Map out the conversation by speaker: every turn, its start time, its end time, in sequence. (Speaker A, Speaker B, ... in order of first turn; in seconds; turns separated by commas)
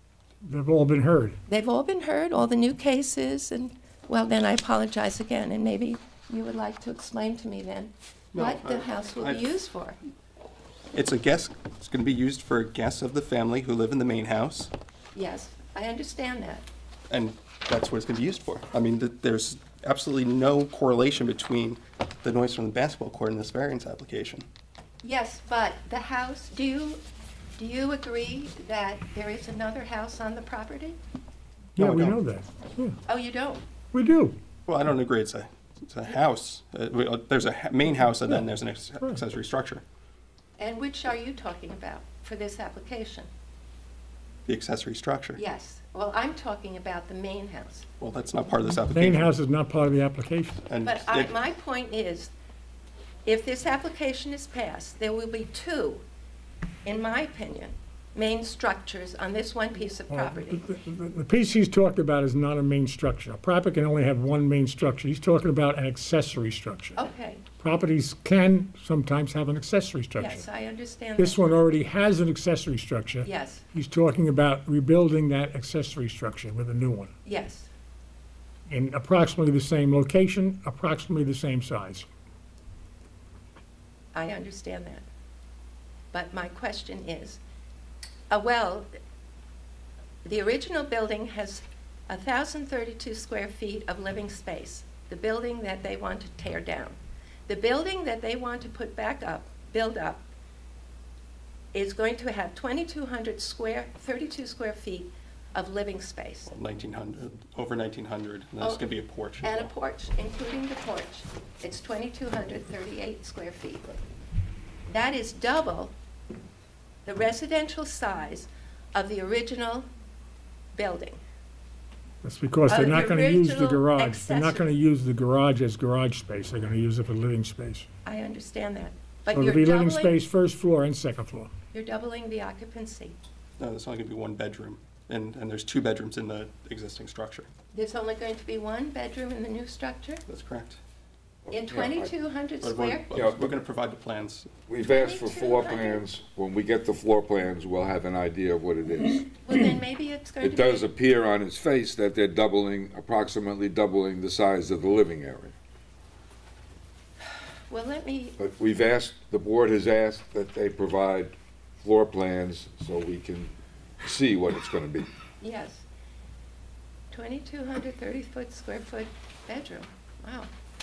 Speaker A: 0.4-1.4, Speaker B: 1.5-10.0, Speaker C: 8.3-9.4, Speaker C: 10.9-14.7, Speaker B: 15.1-16.7, Speaker C: 17.1-24.4, Speaker B: 25.0-27.0, Speaker B: 27.6-31.0, Speaker A: 31.8-33.0, Speaker C: 31.8-32.2, Speaker B: 33.1-33.6, Speaker A: 33.9-34.4, Speaker C: 34.7-39.8, Speaker B: 40.6-43.3, Speaker C: 44.5-45.4, Speaker B: 45.4-47.9, Speaker C: 48.0-49.3, Speaker A: 48.9-50.6, Speaker C: 50.7-51.4, Speaker B: 50.8-52.3, Speaker B: 53.2-56.0, Speaker B: 56.9-60.7, Speaker A: 60.1-67.0, Speaker B: 67.0-67.4, Speaker A: 67.6-70.5, Speaker B: 70.2-71.4, Speaker A: 71.2-77.1, Speaker B: 73.2-73.7, Speaker B: 77.2-77.7, Speaker A: 78.7-82.1, Speaker B: 84.2-85.0, Speaker B: 86.1-87.4, Speaker B: 88.3-88.9, Speaker B: 90.2-100.2, Speaker B: 101.7-106.5, Speaker C: 106.5-109.7, Speaker B: 108.6-108.9, Speaker B: 109.4-114.0, Speaker B: 114.9-115.9, Speaker B: 117.1-119.9, Speaker B: 120.7-121.2, Speaker A: 122.2-127.9, Speaker B: 122.7-124.7, Speaker B: 128.1-130.2, Speaker A: 129.3-131.5, Speaker B: 131.7-133.2, Speaker C: 133.6-137.5, Speaker B: 137.7-140.2, Speaker C: 140.3-140.8, Speaker D: 141.5-142.1, Speaker B: 141.5-143.1, Speaker C: 142.6-144.5, Speaker D: 143.1-143.5, Speaker D: 144.7-149.3, Speaker B: 144.8-146.1, Speaker B: 149.4-150.9, Speaker D: 150.4-155.6, Speaker B: 157.7-158.4, Speaker D: 158.4-165.1, Speaker B: 165.4-165.8, Speaker B: 167.1-170.5